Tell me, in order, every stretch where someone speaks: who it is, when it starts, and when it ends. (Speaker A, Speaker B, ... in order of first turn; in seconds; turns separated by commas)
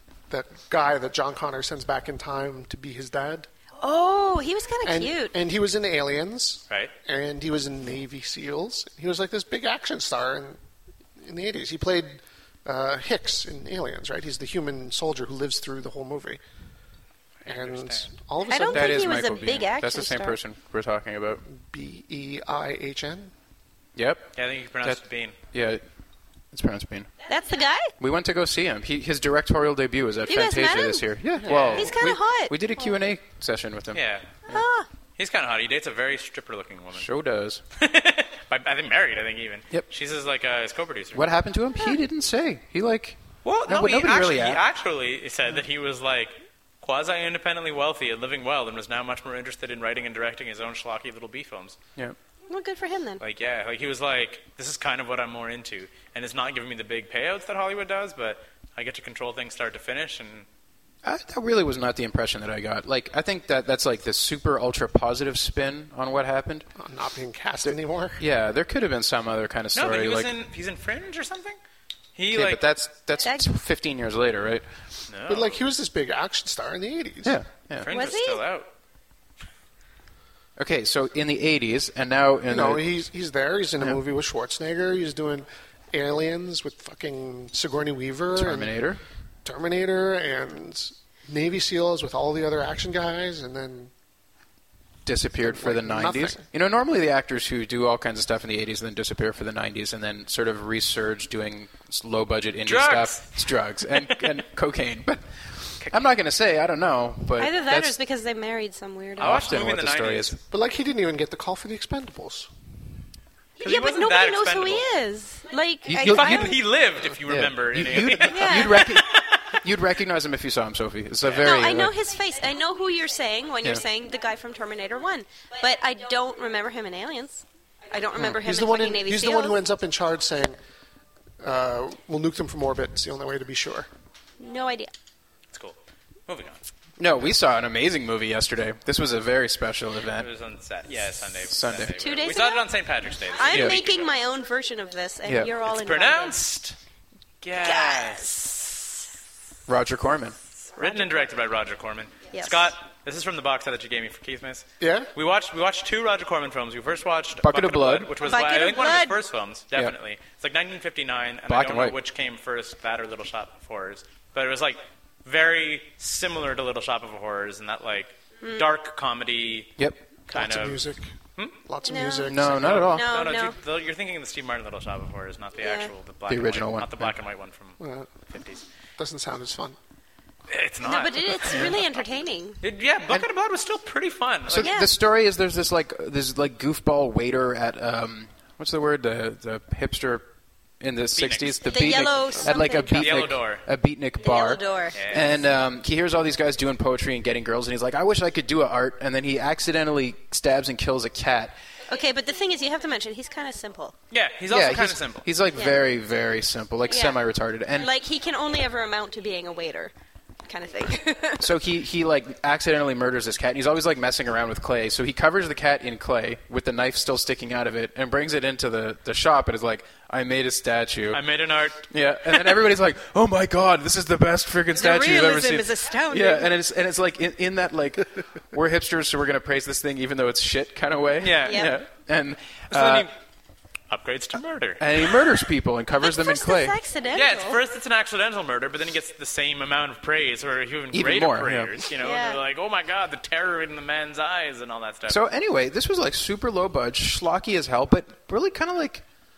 Speaker A: 0.3-3.5, Speaker B: 3.8-5.3, Speaker A: 4.8-10.6, Speaker A: 11.2-16.4, Speaker C: 17.4-18.1, Speaker A: 17.4-19.0, Speaker B: 18.4-20.4, Speaker D: 18.7-21.4, Speaker A: 21.5-23.3, Speaker D: 23.9-25.8, Speaker C: 24.3-25.4, Speaker D: 26.5-27.1, Speaker B: 27.3-27.9, Speaker D: 28.0-34.6, Speaker B: 30.3-33.0, Speaker A: 31.4-31.9, Speaker C: 31.4-31.8, Speaker C: 33.9-34.3, Speaker B: 34.5-34.9, Speaker C: 35.2-37.1, Speaker D: 36.9-37.6, Speaker C: 37.7-41.3, Speaker D: 41.1-44.6, Speaker C: 43.4-51.8, Speaker B: 52.5-53.2, Speaker C: 53.2-60.5, Speaker D: 61.0-66.7, Speaker A: 66.8-68.2, Speaker D: 67.7-70.3, Speaker C: 69.7-71.6, Speaker C: 72.1-72.6, Speaker D: 72.3-74.7, Speaker B: 73.2-73.5, Speaker C: 75.1-75.6, Speaker A: 75.3-77.4, Speaker D: 77.2-77.9, Speaker C: 77.8-78.7, Speaker B: 77.9-78.4, Speaker D: 80.6-83.0, Speaker A: 82.5-88.8, Speaker D: 88.3-89.0, Speaker A: 89.4-93.9, Speaker D: 95.0-107.9, Speaker A: 95.4-96.4, Speaker C: 102.6-104.3, Speaker B: 107.4-109.5, Speaker D: 109.2-110.3, Speaker C: 109.2-110.4, Speaker A: 110.5-112.5, Speaker B: 113.6-116.6, Speaker C: 113.6-114.9, Speaker D: 115.9-121.9, Speaker C: 116.0-119.6, Speaker B: 118.2-119.0, Speaker B: 121.4-129.6, Speaker A: 128.3-130.6, Speaker A: 131.4-133.9, Speaker B: 134.4-134.9, Speaker C: 135.5-136.6, Speaker D: 137.0-140.3, Speaker C: 140.1-144.1, Speaker D: 141.4-142.0, Speaker B: 142.0-142.7, Speaker B: 143.3-146.4, Speaker D: 143.5-143.8, Speaker D: 145.2-145.5, Speaker C: 145.7-146.8, Speaker C: 147.4-148.4, Speaker B: 147.6-148.8, Speaker D: 149.7-150.4, Speaker B: 150.8-151.3, Speaker C: 150.8-169.8, Speaker B: 152.3-152.7, Speaker A: 154.8-155.1, Speaker D: 157.4-158.2, Speaker B: 158.2-159.2, Speaker D: 161.5-162.0, Speaker B: 168.4-168.7, Speaker C: 170.3-170.8, Speaker A: 170.3-171.1, Speaker A: 171.6-172.9, Speaker B: 171.8-173.6, Speaker D: 172.2-173.1, Speaker C: 172.4-178.6, Speaker B: 175.6-175.9, Speaker D: 176.3-177.2, Speaker A: 177.8-178.1, Speaker A: 179.0-179.8, Speaker C: 180.5-182.0, Speaker B: 180.8-182.6, Speaker C: 182.6-184.8, Speaker D: 184.5-190.2, Speaker B: 184.5-184.9, Speaker D: 190.8-201.5, Speaker C: 191.2-192.1, Speaker B: 191.7-193.1, Speaker C: 192.9-193.6, Speaker B: 194.2-195.2, Speaker C: 194.9-195.4, Speaker B: 201.9-203.9, Speaker C: 204.1-205.3, Speaker D: 204.5-207.9, Speaker B: 205.5-205.8, Speaker B: 206.9-207.2, Speaker B: 207.7-209.9, Speaker B: 210.5-211.5, Speaker D: 211.4-221.2, Speaker C: 221.1-222.5, Speaker D: 221.9-233.1, Speaker B: 224.8-226.5, Speaker C: 231.2-231.7, Speaker B: 231.4-231.7, Speaker C: 232.7-233.2, Speaker C: 233.9-235.2, Speaker D: 234.8-236.8, Speaker B: 236.0-237.6, Speaker C: 237.1-245.2, Speaker D: 240.9-241.8, Speaker B: 242.0-242.4, Speaker D: 245.1-249.0